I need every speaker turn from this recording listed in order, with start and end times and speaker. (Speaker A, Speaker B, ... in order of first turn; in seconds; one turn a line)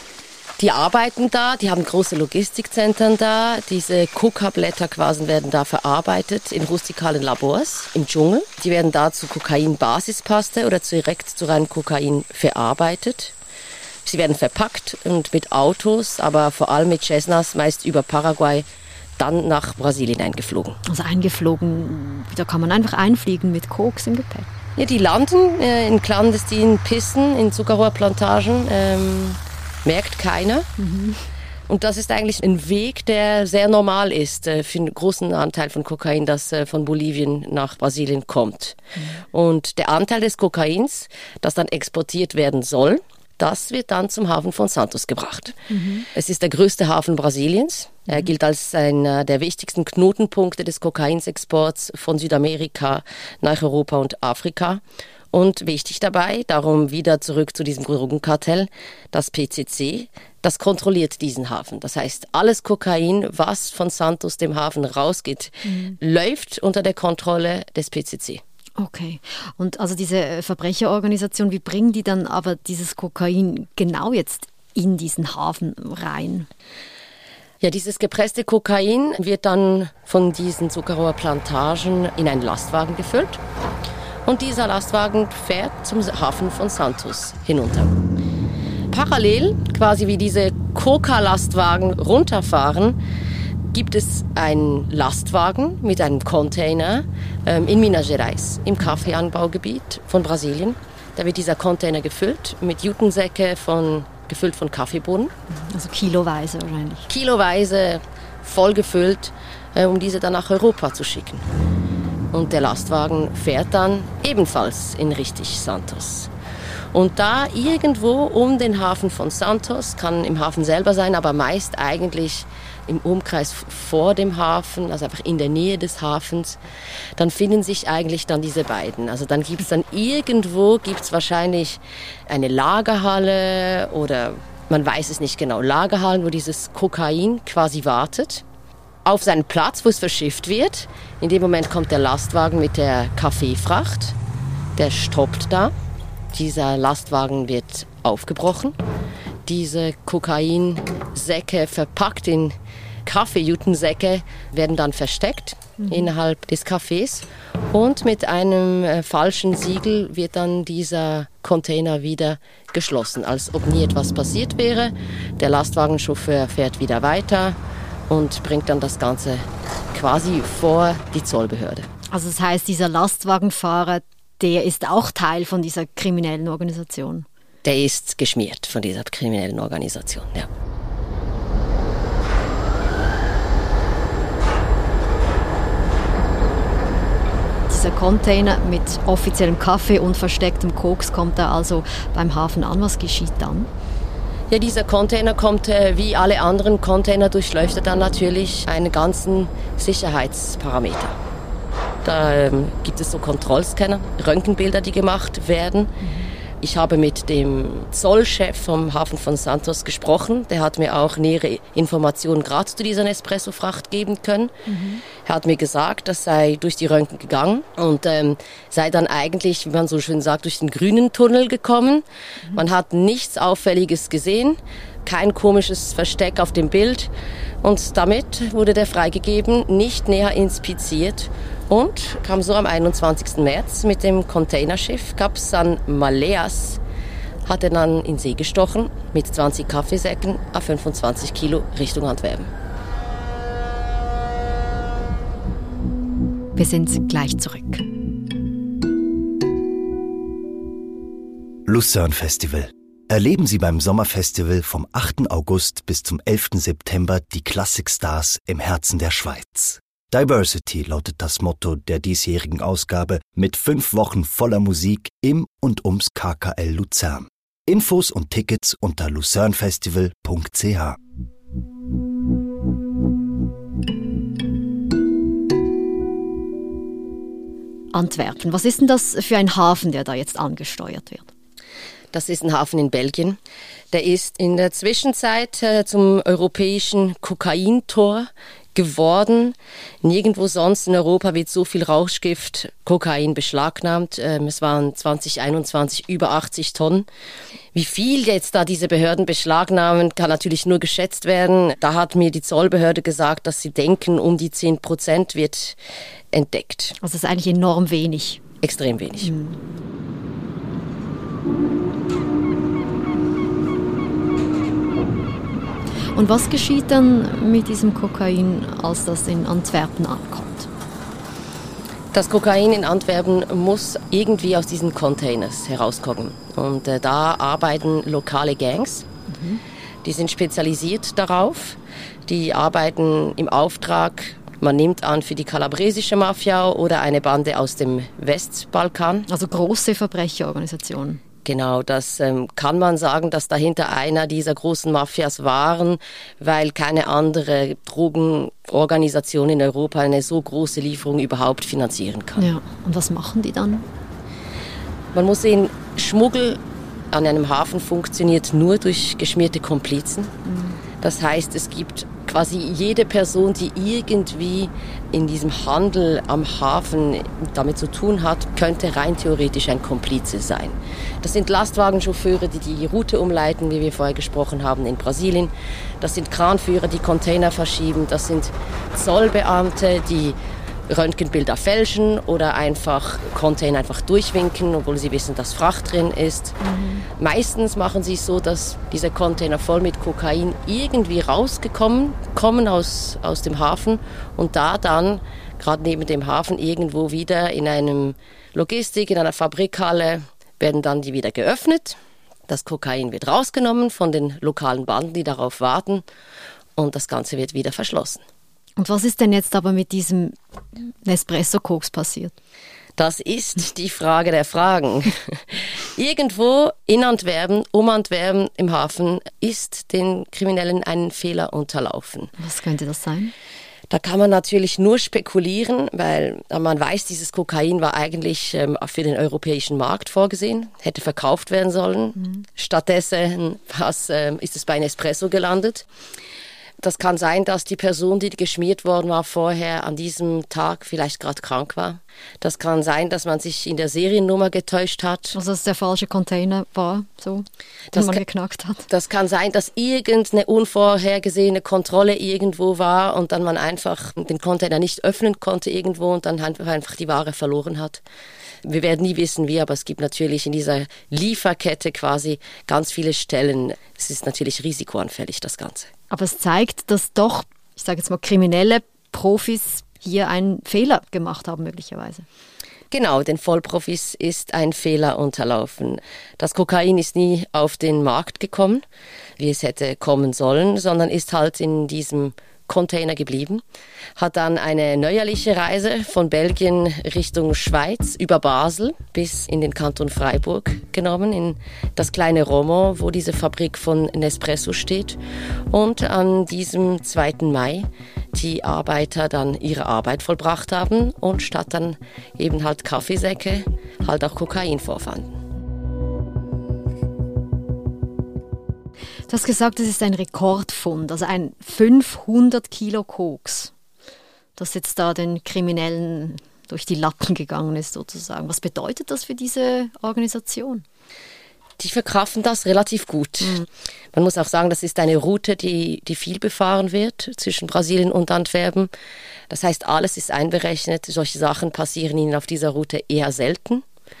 Speaker A: 0.6-13.3
Speaker A: 14.0-18.6
Speaker A: 19.2-20.8
Speaker B: 20.8-24.5
Speaker A: 24.8-30.7
Speaker B: 30.8-31.2
Speaker A: 31.7-38.8
Speaker A: 39.3-45.6
Speaker B: 45.7-46.0
Speaker A: 46.1-54.8
Speaker A: 55.3-68.4
Speaker B: 65.7-65.9
Speaker B: 68.8-76.5
Speaker A: 77.6-83.4
Speaker A: 84.2-87.9
Speaker A: 88.9-93.0
Speaker A: 93.7-105.3
Speaker B: 105.5-107.1
Speaker A: 107.1-111.4
Speaker A: 112.3-116.3
Speaker A: 116.9-126.6
Speaker A: 127.2-138.4
Speaker A: 139.0-144.2
Speaker A: 144.8-145.7
Speaker A: 146.3-148.8
Speaker A: 149.4-167.6
Speaker A: 168.1-171.9
Speaker B: 172.1-177.3
Speaker A: 177.6-180.5
Speaker B: 187.7-193.7
Speaker A: 194.5-201.2
Speaker A: 202.0-205.9
Speaker B: 206.0-206.3
Speaker A: 206.6-214.5
Speaker B: 214.7-215.0
Speaker A: 215.2-227.1
Speaker A: 227.6-236.8
Speaker A: 237.4-242.5
Speaker B: 246.6-247.8
Speaker C: 251.7-271.0
Speaker B: 277.9-281.3
Speaker A: 282.1-283.4
Speaker A: 283.9-297.1
Speaker A: 297.7-305.8
Speaker A: 306.3-306.9
Speaker B: 307.0-308.4
Speaker A: 308.6-309.3
Speaker B: 309.2-309.6
Speaker B: 316.1-320.7
Speaker A: 322.1-329.0
Speaker B: 329.3-329.6
Speaker A: 330.0-339.3
Speaker B: 339.3-341.2
Speaker A: 341.4-352.4
Speaker B: 352.4-353.8
Speaker A: 355.1-356.6
Speaker A: 357.1-360.3
Speaker B: 360.4-360.8
Speaker A: 361.0-380.4
Speaker A: 380.9-386.6
Speaker B: 386.6-387.0
Speaker A: 387.2-402.0
Speaker A: 402.5-406.0
Speaker A: 406.8-408.2
Speaker B: 408.8-412.3
Speaker A: 413.0-422.3
Speaker B: 422.4-423.3
Speaker A: 423.9-435.8
Speaker A: 436.8-445.4
Speaker B: 445.3-448.9
Speaker A: 447.9-448.2
Speaker A: 448.9-458.0
Speaker A: 458.6-465.9
Speaker B: 466.1-472.2
Speaker A: 472.9-478.8
Speaker A: 479.4-483.6
Speaker A: 484.2-495.2
Speaker A: 495.7-505.3
Speaker B: 509.3-513.7
Speaker B: 514.5-520.8
Speaker A: 521.8-528.9
Speaker A: 529.5-533.8